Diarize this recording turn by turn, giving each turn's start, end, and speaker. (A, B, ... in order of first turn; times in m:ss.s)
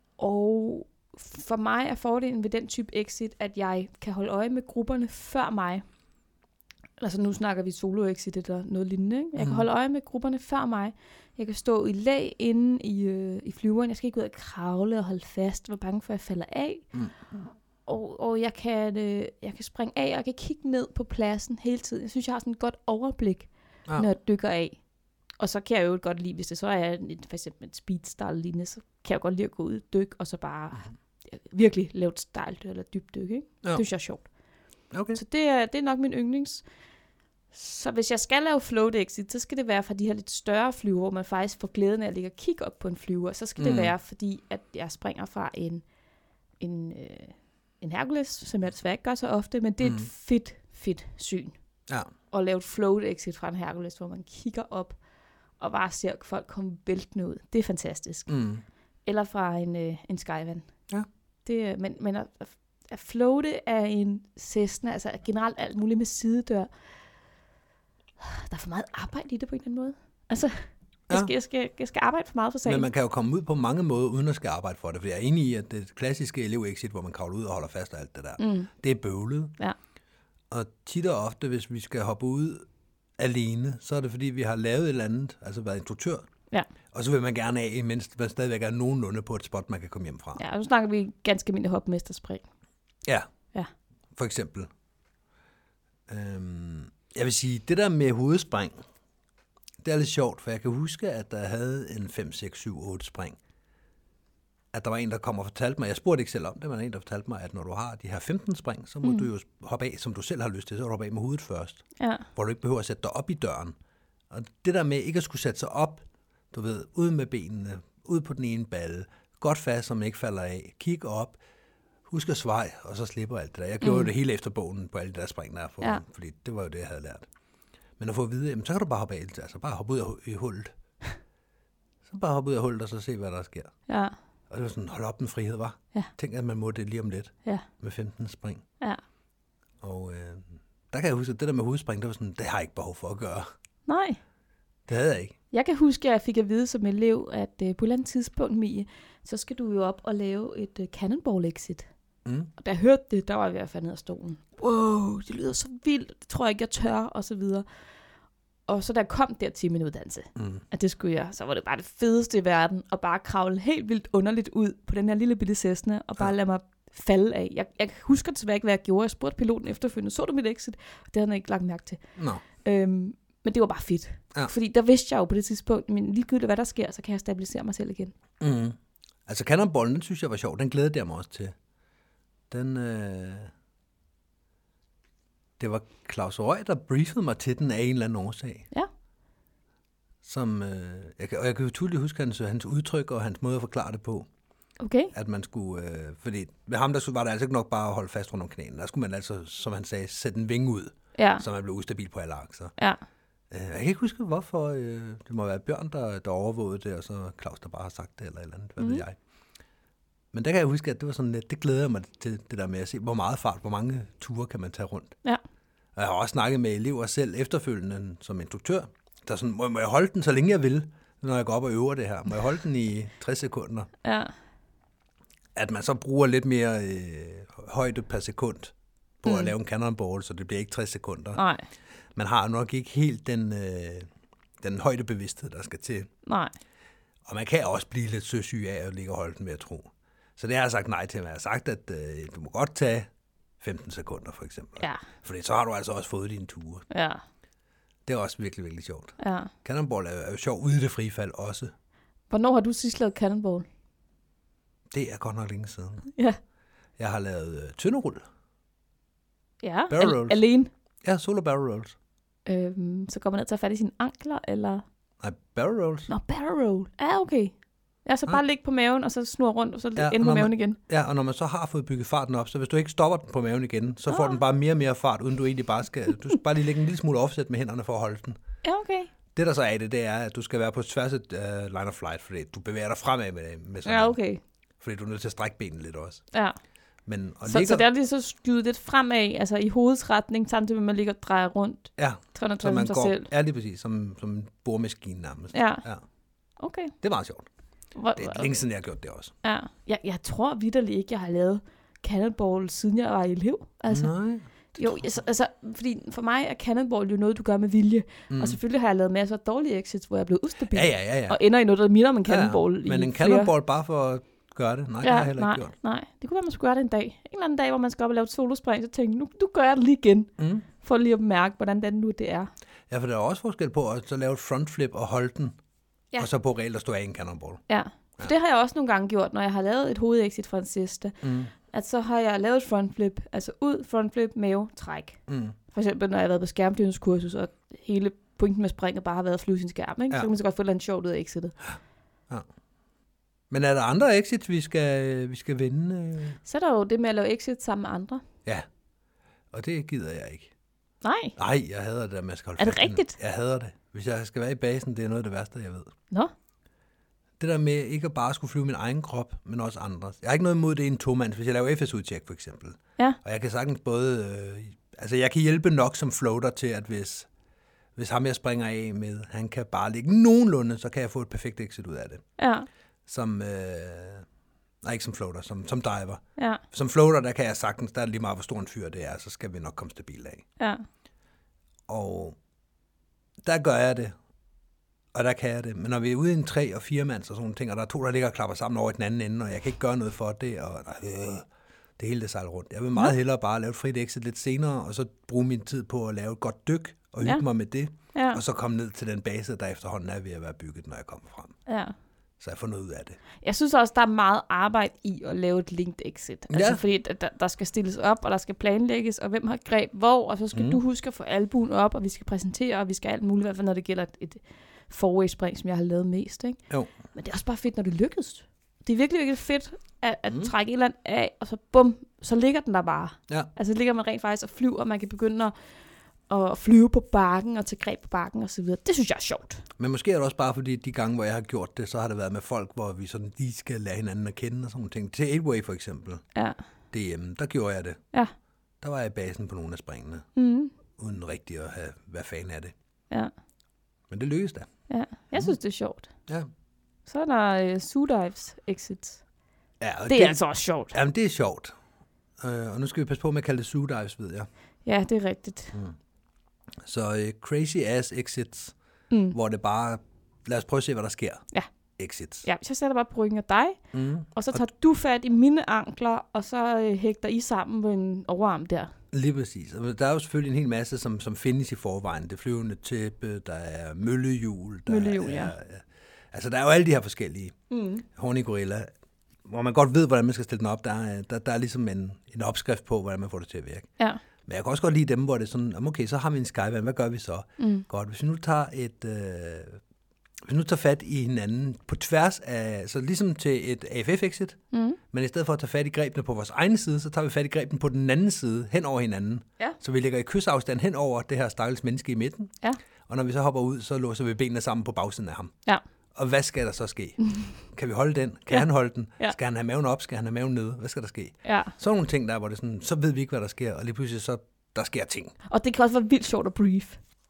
0:00.2-0:05.8 A
0:07.0-0:16.9 A
0:09.4-0:09.6 B
0:17.9-0:24.8 A
0:25.4-0:34.3 A
0:34.9-0:35.2 B
0:35.1-0:36.6 A
0:37.5-0:45.8 A
0:43.6-0:43.9 B
0:46.6-0:51.6 A
0:49.8-0:50.1 B
0:52.3-0:55.0 A
0:55.6-0:58.3 A
0:58.3-0:58.6 B
0:59.1-1:00.7 A
1:01.4-1:06.7 A
1:08.2-1:12.9 A
1:12.6-1:19.5 B
1:18.4-1:18.7 A
1:20.5-1:22.6 B
1:23.2-1:26.3 B
1:26.9-1:30.4 B
1:30.4-1:32.5 A
1:34.2-1:34.7 B
1:36.1-1:38.8 B
1:39.8-1:43.4 B
1:44.7-1:51.8 B
1:52.0-1:52.3 A
1:52.4-1:53.8 B
1:54.3-2:01.4 B
2:02.1-2:07.3 B
2:03.8-2:04.1 A
2:08.0-2:10.7 B
2:12.0-2:13.7 B
2:13.9-2:14.2 A
2:14.5-2:18.6 B
2:19.8-2:23.5 B
2:23.9-2:24.2 A
2:24.9-2:25.4 B
2:25.5-2:31.9 A
2:32.2-2:32.5 B
2:32.6-2:37.6 A
2:38.7-2:52.0 A
2:40.4-2:40.6 B
2:52.2-2:52.4 B
2:52.6-2:58.1 A
2:58.4-2:58.8 B
2:59.3-3:01.5 B
3:02.5-3:03.5 B
3:05.6-3:08.7 B
3:10.2-3:14.3 B
3:14.8-3:15.1 A
3:15.1-3:22.7 B
3:21.2-3:21.4 A
3:23.5-3:29.2 B
3:28.8-3:29.0 A
3:30.3-3:35.2 B
3:36.0-3:43.9 B
3:44.0-3:44.3 A
3:45.6-3:51.4 B
3:49.2-3:49.5 A
3:51.4-3:51.7 A
3:52.2-3:54.1 B
3:54.6-3:56.1 B
3:56.3-3:56.5 A
3:57.3-4:03.1 B
4:03.6-4:06.8 B
4:06.9-4:07.2 A
4:08.1-4:11.7 B
4:09.2-4:09.5 A
4:12.3-4:13.7 A
4:14.9-4:16.1 B
4:17.0-4:18.2 B
4:19.6-4:20.7 A
4:19.9-4:20.4 B
4:21.0-4:22.0 B
4:22.5-4:24.8 A
4:25.2-4:26.1 B
4:26.1-4:27.6 A
4:28.1-4:30.8 A
4:30.0-4:38.4 B
4:34.1-4:34.4 A
4:38.6-4:39.1 A
4:39.3-4:44.2 B
4:43.8-4:44.4 A
4:44.8-4:46.2 B
4:47.1-4:47.9 B
4:47.4-4:53.3 A
4:52.0-4:56.0 B
4:55.5-4:55.8 A
4:56.6-4:57.0 A
4:57.0-4:57.5 B
4:58.0-4:58.6 A
4:58.2-4:59.3 B
4:59.4-5:04.1 A
5:03.9-5:05.1 B
5:04.8-5:13.5 A
5:08.3-5:08.6 B
5:10.7-5:11.4 B
5:12.3-5:15.7 B
5:15.0-5:22.5 A
5:20.4-5:20.6 B
5:22.9-5:25.6 B
5:26.2-5:27.6 B
5:27.7-5:35.2 A
5:31.2-5:31.5 B
5:35.3-5:35.6 B
5:35.7-5:41.5 A
5:43.5-5:46.4 B
5:46.4-5:48.2 A
5:49.5-5:50.5 B
5:51.0-5:51.4 A
5:51.4-5:55.9 B
5:52.6-5:53.2 A
5:57.4-6:07.3 B
6:08.0-6:12.2 B
6:12.4-6:12.7 A
6:13.1-6:14.2 B
6:14.8-6:20.4 B
6:16.4-6:16.6 A
6:21.9-6:22.4 B
6:23.4-6:24.1 B
6:25.1-6:31.5 B
6:32.0-6:41.6 B
6:38.1-6:38.4 A
6:41.7-6:41.9 A
6:42.4-6:43.2 B
6:43.4-6:56.6 A
6:46.5-6:46.8 B
6:50.5-6:50.8 B
6:57.1-7:05.5 A
7:06.3-7:09.6 A
7:09.8-7:16.2 B
7:16.4-7:16.6 A
7:16.9-7:18.0 B
7:18.8-7:20.3 B
7:20.4-7:20.7 A
7:21.0-7:22.7 B
7:24.1-7:24.7 B
7:24.9-7:26.1 A
7:27.1-7:29.2 A
7:29.8-7:30.4 B
7:30.1-7:31.0 A
7:30.9-7:31.7 B
7:32.4-7:34.5 B
7:34.8-7:35.8 A
7:36.8-7:38.7 B
7:39.1-7:39.4 A
7:39.3-7:41.4 B
7:42.0-7:42.5 B
7:42.4-7:43.8 A
7:43.9-7:44.6 B
7:44.3-7:48.9 A
7:49.1-7:57.6 B
7:54.9-7:55.5 A
7:57.7-7:58.0 A
7:58.2-7:58.9 B
7:59.4-8:03.9 B
8:04.5-8:09.8 B
8:07.6-8:07.9 A
8:10.5-8:14.6 B
8:14.7-8:15.0 A
8:15.1-8:22.5 B
8:23.1-8:25.5 B
8:26.2-8:27.2 B
8:27.7-8:35.3 B
8:31.4-8:31.7 A
8:35.5-8:37.0 A